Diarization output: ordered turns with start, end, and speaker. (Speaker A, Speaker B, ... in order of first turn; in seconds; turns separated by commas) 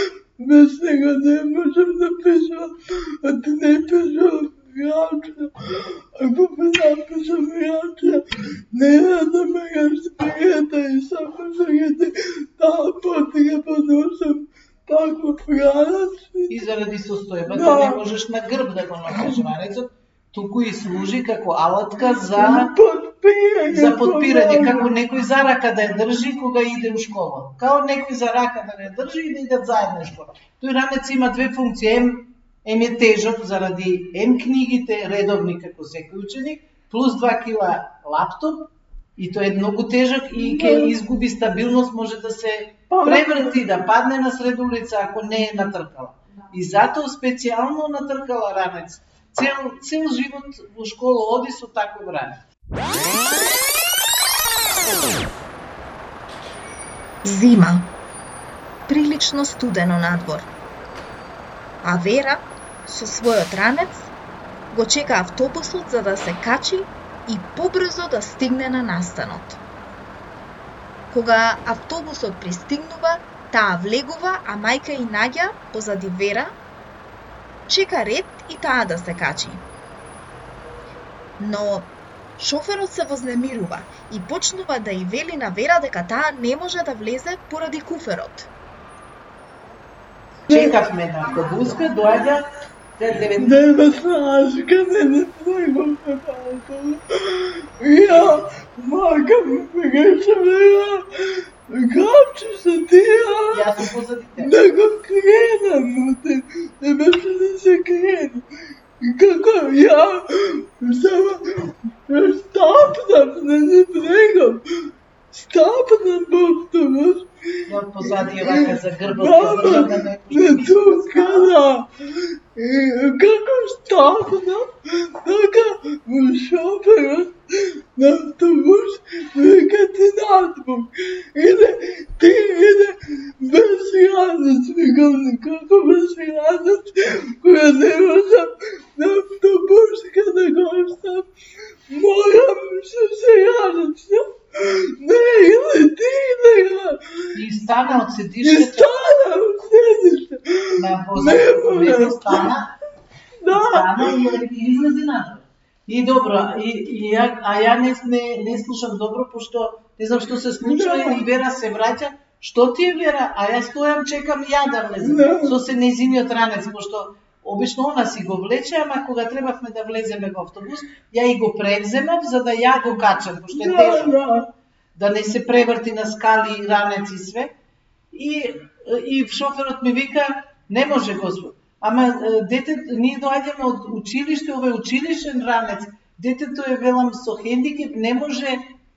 Speaker A: 0.4-16.6, Speaker B: 16.5-22.7, Speaker A: 17.5-18.0, Speaker A: 19.1-19.5, Speaker A: 22.1-24.9, Speaker B: 23.7-52.4, Speaker A: 40.3-40.9, Speaker A: 42.9-43.6, Speaker C: 57.2-57.9, Speaker C: 58.9-60.5, Speaker C: 61.8-64.1, Speaker C: 64.7-69.6, Speaker C: 71.1-76.5, Speaker C: 77.7-79.6, Speaker C: 81.4-88.5, Speaker A: 90.5-90.8, Speaker B: 90.5-92.5, Speaker B: 93.0-93.7, Speaker A: 93.4-103.7, Speaker B: 103.5-104.5, Speaker A: 104.4-108.5, Speaker A: 109.0-114.6, Speaker A: 115.3-117.3, Speaker B: 117.7-121.5, Speaker A: 118.1-141.3, Speaker A: 141.9-147.3, Speaker B: 147.3-148.9, Speaker A: 148.4-152.5, Speaker B: 150.8-152.7, Speaker A: 153.4-154.4, Speaker B: 153.5-174.2, Speaker A: 160.6-161.2, Speaker A: 165.0-165.6, Speaker A: 173.5-174.4, Speaker B: 174.9-177.5, Speaker B: 178.1-188.6